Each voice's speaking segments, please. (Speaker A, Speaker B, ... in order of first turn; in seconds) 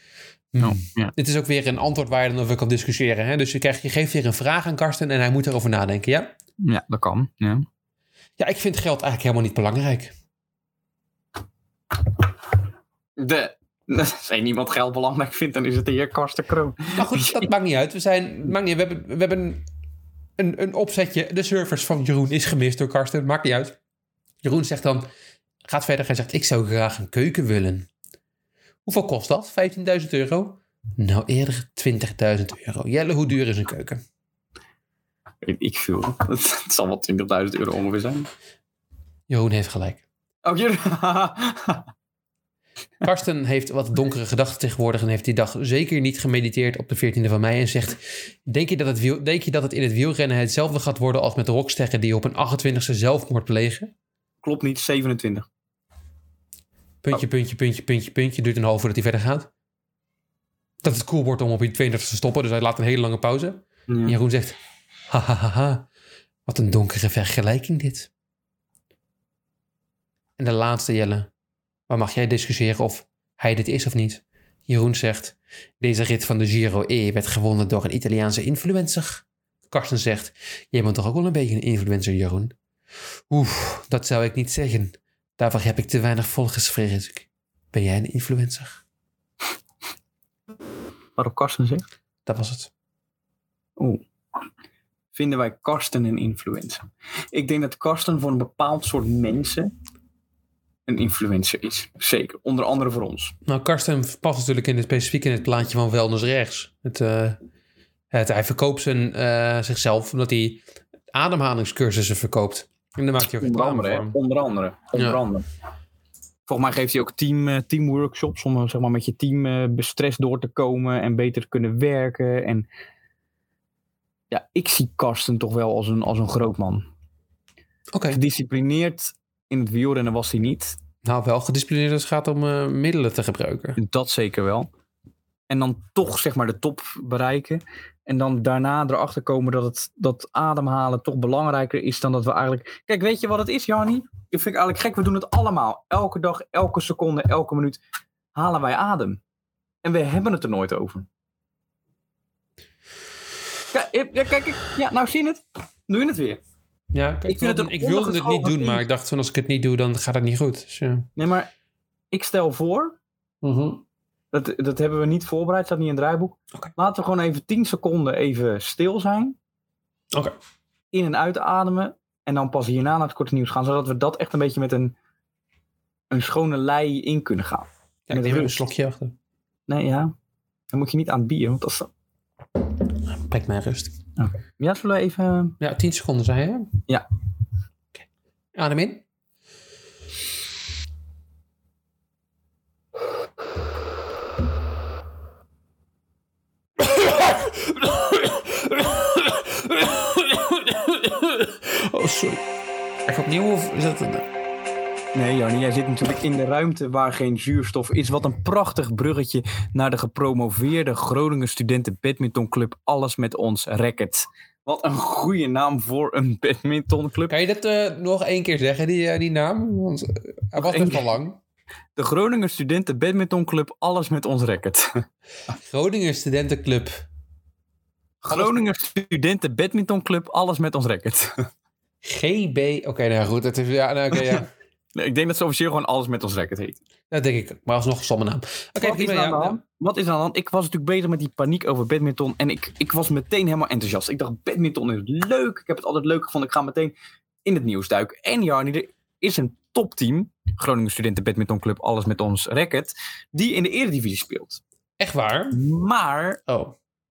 Speaker A: 0.5-6.3, 8.4-10.1, 16.9-19.6, 20.4-23.8, 24.4-25.1, 25.7-27.9, 28.9-34.0, 39.3-40.0, 43.0-53.9, 57.0-59.5, 60.8-64.6, 65.1-65.9, 66.5-68.1, 70.4-71.3, 71.9-82.5, 83.3-88.8, 92.2-92.7, 103.5-107.4, 108.1-114.2, 114.9-115.2, 127.9-128.2, 131.0-133.8, 156.9-161.1, 163.4-163.8, 178.1-179.1, 183.1-183.9, 185.6-186.7, 188.6-189.0, 196.8-202.4, 203.1-204.3, 217.3-221.4, 225.6-226.9, 228.3-228.6, 232.0-234.5, 237.1-239.6, 255.0-255.6, 256.5-256.7
Speaker B: 0.6-1.1, 6.6-7.7, 13.2-17.5, 35.4-38.3, 40.4-41.9, 54.4-55.5, 63.9-64.1, 91.2-91.8, 93.8-94.0, 95.1-99.7, 100.9-103.3, 113.2-115.5, 116.5-122.7, 124.3-126.8, 128.1-130.8, 133.8-134.7, 135.5-147.8, 148.3-149.2, 149.8-151.1, 153.7-156.4, 157.3-158.8, 161.2-161.5, 162.1-163.0, 164.3-169.3, 170.9-174.9, 176.1-178.6, 179.7-180.1, 180.7-181.9, 184.2-185.6, 205.1-217.3, 220.5-221.1, 221.9-225.0, 228.2-231.5, 234.1-234.4, 234.9-236.8, 238.8-246.9, 247.4-254.6, 255.5-256.4